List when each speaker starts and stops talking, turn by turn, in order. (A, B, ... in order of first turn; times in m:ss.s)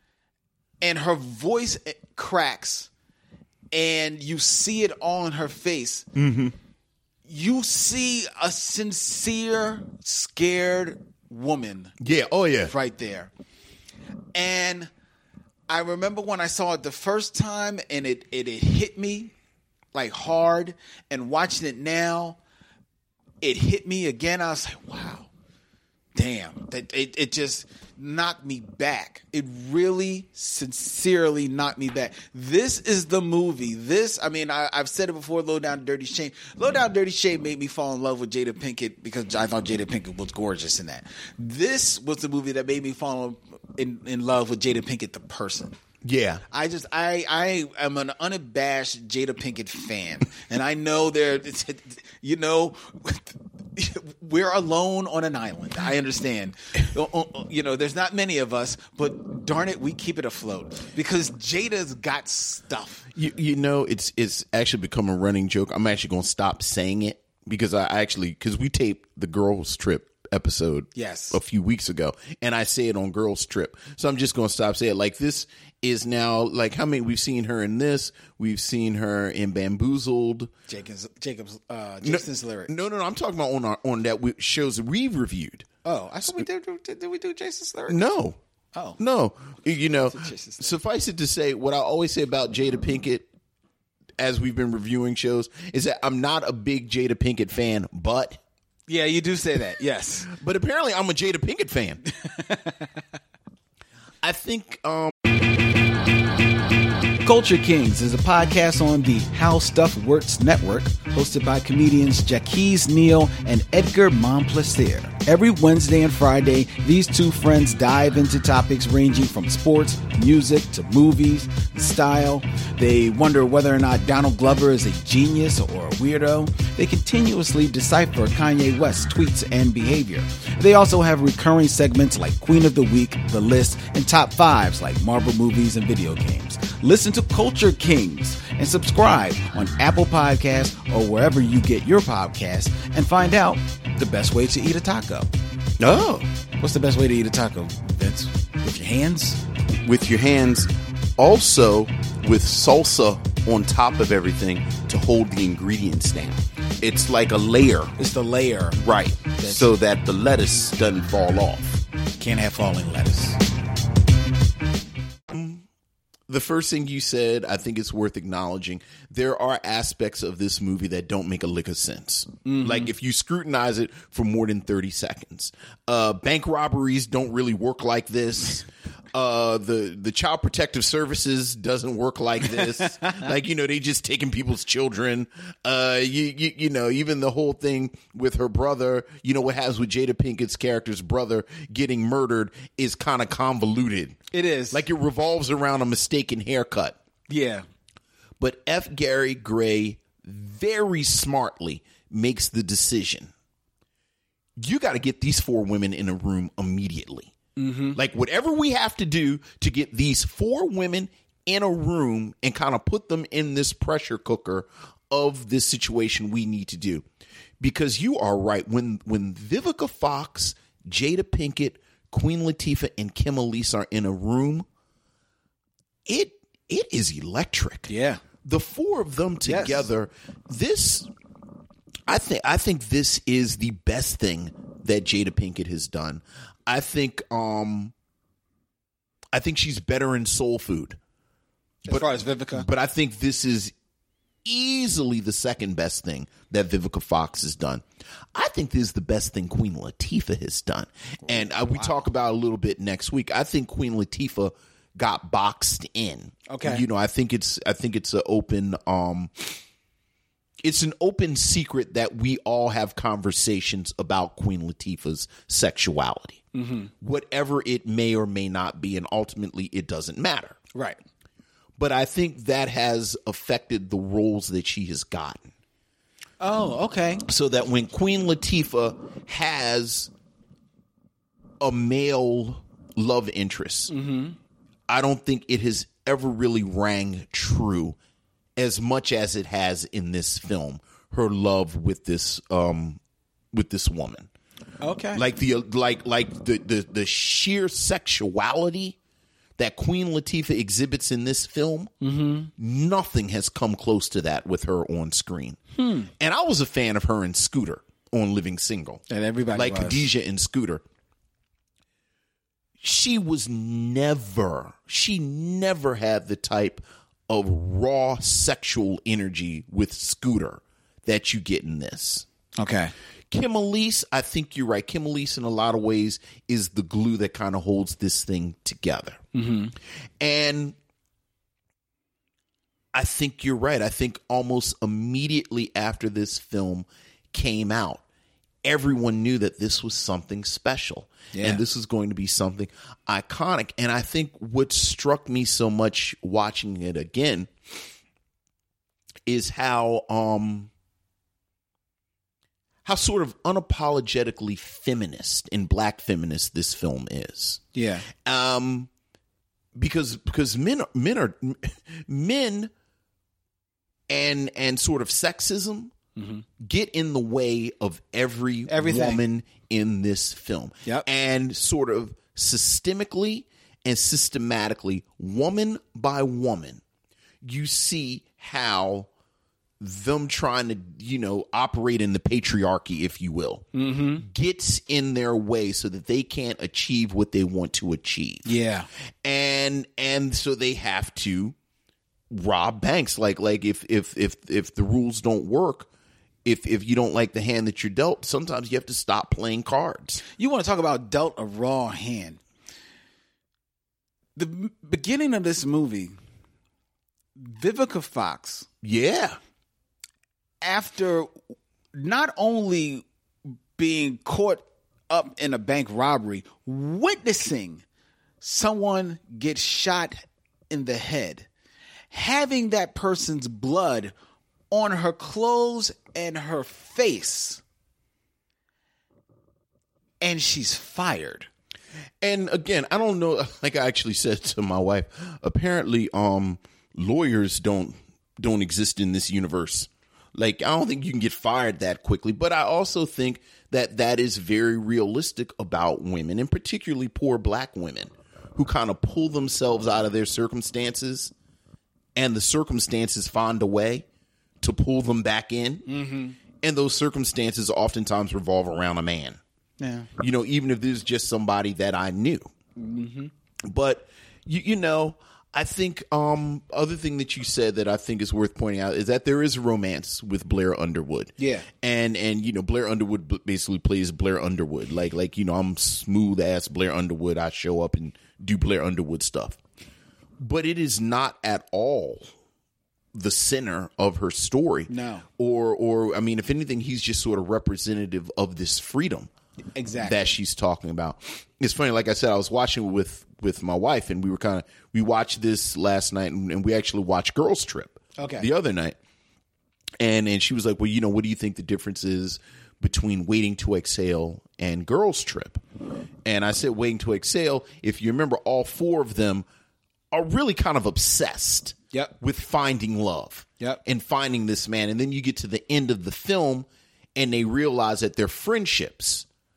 0:00.8-0:02.9 A
0:03.7-0:06.1 A
0:06.2-0:06.6 B
0:07.3-0:11.9 A
0:12.0-0:12.7 B
0:12.6-0:13.3 A
0:14.4-0:14.9 A
0:15.7-0:19.3 A
0:19.9-0:22.4 A
0:23.4-0:25.3 A
0:26.2-0:45.8 A
0:46.0-0:46.4 B
0:46.5-1:03.1 A
1:03.2-1:20.5 B
1:10.9-1:11.4 A
1:20.7-1:22.7 A
1:22.0-1:25.7 B
1:25.8-1:28.0 A
1:27.9-1:28.4 B
1:28.7-1:29.0 A
1:29.0-1:33.3 B
1:30.1-1:30.7 A
1:34.2-1:38.4 B
1:38.9-1:40.3 A
1:40.3-1:42.0 B
1:42.2-1:42.9 A
1:44.2-1:45.2 B
1:47.2-2:25.3 A
2:25.8-2:26.3 B
2:26.6-2:29.4 A
2:29.8-2:37.9 B
2:38.0-2:38.8 A
2:38.8-2:41.8 B
2:39.4-2:39.7 A
2:42.2-2:43.4 A
2:45.3-2:45.6 B
2:46.3-3:14.2 B
2:52.4-2:52.9 A
3:02.6-3:03.2 A
3:14.3-3:14.8 A
3:14.7-3:17.0 B
3:17.3-3:17.6 A
3:18.4-3:23.3 B
3:24.6-3:27.3 B
3:27.6-3:28.0 A
3:27.9-3:37.1 B
3:37.6-3:44.6 B
3:46.1-3:47.9 B
3:47.9-3:48.2 A
3:48.4-3:51.1 B
3:49.4-3:49.9 A
3:52.1-3:57.9 B
3:59.3-4:01.0 B
4:01.8-4:02.7 A
4:01.9-4:03.7 B
4:04.4-4:19.6 B
4:11.2-4:12.0 A
4:16.5-4:16.8 A
4:20.6-4:26.4 B
4:26.5-4:26.9 A
4:27.0-4:30.6 B
4:30.7-4:31.0 A
4:31.8-4:35.5 B
4:36.4-4:37.2 A
4:37.3-4:40.1 B
4:41.6-4:43.9 B
4:43.9-4:44.4 A
4:44.9-4:48.0 B
4:48.6-4:53.0 B
4:53.5-4:54.3 B
4:54.8-4:55.2 A
4:55.1-4:59.0 B
4:59.6-5:01.9 B
5:02.0-5:02.5 A
5:02.6-5:05.6 B
5:05.8-5:06.1 A
5:06.2-5:09.0 B
5:09.1-5:10.1 A
5:09.5-5:10.8 B
5:12.8-5:22.2 B
5:22.6-5:22.9 A
5:23.3-5:29.2 B
5:29.3-5:29.8 A
5:30.2-5:30.8 B
5:32.9-5:38.0 B
5:38.6-5:47.5 B
5:41.3-5:41.6 A
5:49.2-5:50.7 B
5:52.8-5:58.9 B
5:57.7-5:58.1 A
5:59.8-6:02.7 B
6:04.1-6:05.9 B
6:06.2-6:06.4 A
6:06.6-6:16.8 B
6:08.7-6:09.2 A
6:17.4-6:19.1 B
6:19.8-6:23.6 B
6:23.7-6:24.2 A
6:24.2-6:28.5 B
6:28.4-6:28.9 A
6:29.2-6:31.6 B
6:32.3-6:35.9 B
6:36.4-6:40.2 B
6:40.3-6:42.4 A
6:44.4-6:46.2 A
6:47.4-6:48.7 A
6:48.8-6:49.4 B
6:50.6-6:51.3 A
6:51.9-6:53.0 A
6:53.8-6:57.8 A
6:58.4-7:01.5 A
7:02.1-7:04.1 A
7:04.7-7:07.6 A
7:10.2-7:11.5 A
7:12.2-7:31.3 B
7:32.2-7:34.1 B
7:34.6-7:35.9 B
7:35.9-7:36.4 A
7:36.6-7:39.4 B
7:39.8-7:40.1 A
7:40.2-7:42.5 B
7:42.8-7:43.3 A
7:43.6-7:59.6 B
7:51.4-7:51.7 A
8:00.4-8:02.3 B
8:03.1-8:09.3 B
8:04.9-8:05.2 A
8:09.8-8:10.3 A
8:10.0-8:19.0 B
8:18.2-8:18.5 A
8:20.0-8:25.6 B
8:26.2-8:29.5 B
8:30.1-8:39.2 B